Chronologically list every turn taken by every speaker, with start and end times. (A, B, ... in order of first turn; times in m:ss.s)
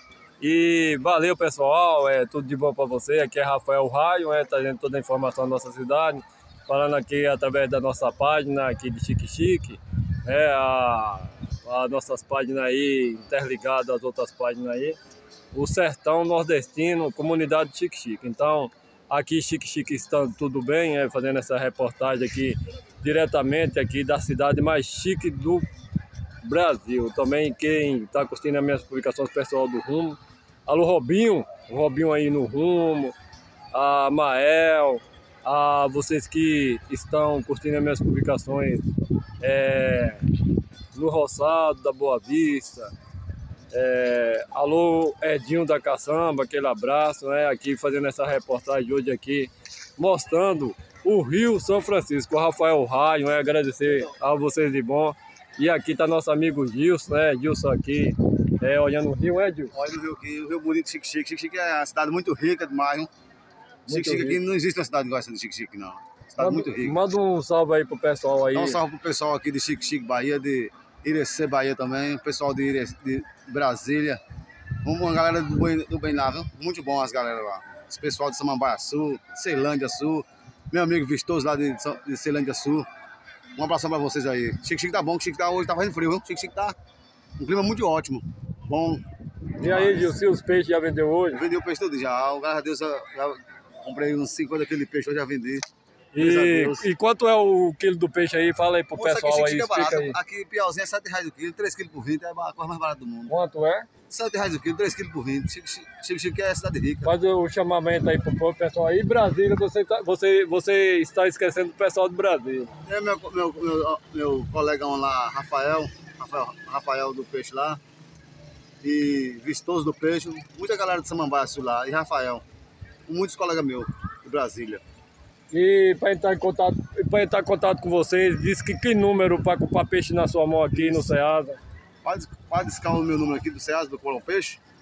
0:00.4-0:15.0 A
0:15.5-0:25.7 A
0:26.4-0:33.1 A
0:33.7-0:38.9 A
0:39.4-0:40.2 A
0:40.9-0:42.9 A
0:43.7-0:59.7 A
0:59.7-1:03.1 B
1:03.9-1:04.4 A
1:03.9-1:07.0 B
1:06.4-1:08.8 A
1:08.6-1:14.2 B
1:14.8-1:22.9 B
1:23.6-1:26.7 B
1:27.4-1:29.0 B
1:29.6-1:31.4 A
1:29.6-1:30.1 B
1:31.3-1:35.6 B
1:36.1-1:40.2 A
1:36.2-1:36.9 B
1:39.0-1:43.3 B
1:43.3-1:43.9 A
1:44.1-1:47.1 B
1:47.0-1:52.7 A
1:52.9-1:57.8 B
1:58.8-2:02.4 B
2:03.1-2:04.8 B
2:05.5-2:11.6 A
2:10.7-2:11.1 B
2:12.0-2:14.6 B